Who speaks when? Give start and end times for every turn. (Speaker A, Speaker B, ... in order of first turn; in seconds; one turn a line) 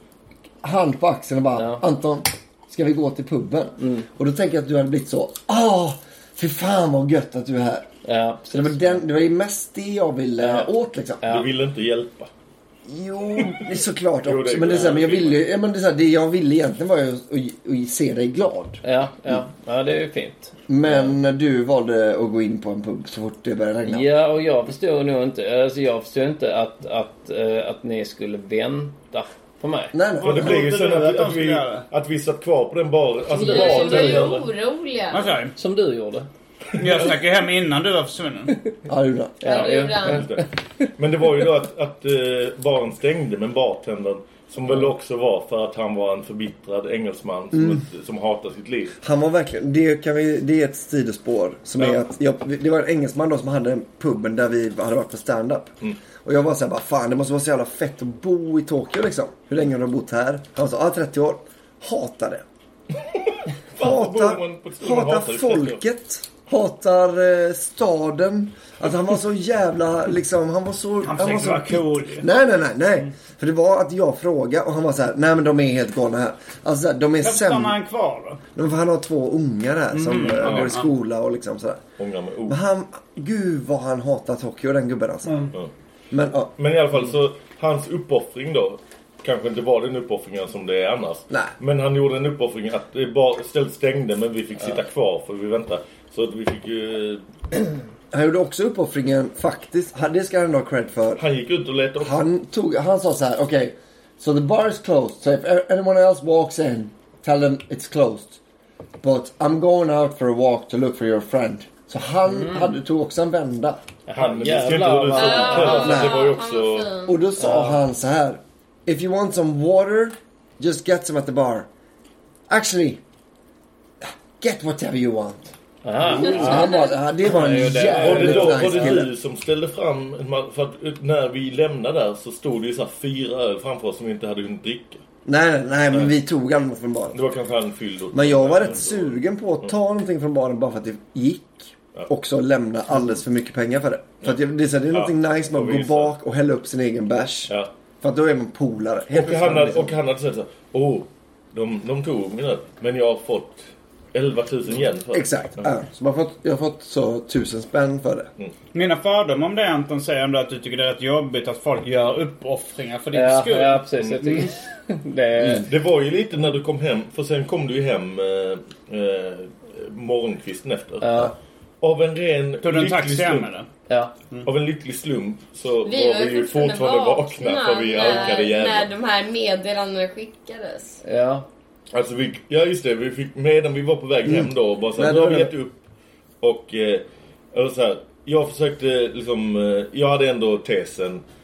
Speaker A: 0.6-7.9
Speaker B: 1.6-1.8
Speaker B: 3.8-4.1
Speaker B: 8.0-9.0
Speaker A: 8.5-11.2
Speaker B: 10.4-10.7
Speaker B: 11.2-11.5
Speaker C: 11.2-12.3
Speaker A: 12.8-19.4
Speaker C: 13.4-13.6
Speaker C: 14.2-15.4
Speaker B: 18.8-21.1
Speaker A: 20.7-24.1
Speaker B: 23.9-29.9
Speaker A: 29.9-30.6
Speaker D: 30.2-31.9
Speaker C: 30.2-34.3
Speaker E: 33.3-35.3
Speaker B: 33.3-34.5
Speaker D: 35.1-35.5
Speaker B: 35.5-36.3
Speaker D: 36.8-38.6
Speaker A: 38.8-39.6
Speaker E: 39.4-40.3
Speaker B: 39.4-40.4
Speaker C: 40.0-40.5
Speaker C: 41.0-49.0
Speaker A: 47.5-47.8
Speaker A: 49.0-62.4
Speaker C: 63.0-65.8
Speaker A: 63.8-77.8
Speaker D: 71.0-72.3
Speaker D: 77.2-78.4
Speaker A: 78.5-81.8
Speaker D: 79.9-80.8
Speaker C: 80.4-80.8
Speaker C: 82.0-82.6
Speaker A: 82.5-85.5
Speaker D: 85.2-85.5
Speaker A: 86.1-86.5
Speaker C: 86.6-97.2
Speaker A: 98.1-101.2
Speaker C: 101.2-102.2
Speaker A: 102.0-108.4
Speaker A: 109.0-113.8
Speaker B: 112.3-112.8
Speaker B: 114.1-116.0
Speaker C: 114.1-116.9
Speaker E: 115.1-117.2
Speaker A: 115.5-116.3
Speaker A: 117.1-121.7
Speaker B: 117.4-117.8
Speaker A: 122.5-123.0
Speaker A: 124.0-125.5
Speaker B: 125.8-129.0
Speaker A: 126.0-129.1
Speaker E: 126.3-126.8
Speaker C: 128.0-135.0
Speaker A: 135.2-137.2
Speaker C: 137.1-139.7
Speaker A: 138.1-150.0
Speaker C: 144.9-146.1
Speaker C: 149.1-155.7
Speaker A: 155.1-158.3
Speaker D: 158.7-164.4
Speaker B: 163.1-165.7
Speaker C: 165.6-171.1
Speaker B: 171.0-171.3
Speaker C: 171.8-173.5
Speaker D: 172.6-173.7
Speaker B: 173.9-174.1
Speaker C: 174.4-178.9
Speaker E: 175.8-181.0
Speaker B: 181.0-181.5
Speaker C: 181.9-185.8
Speaker A: 184.2-185.5
Speaker C: 186.4-191.2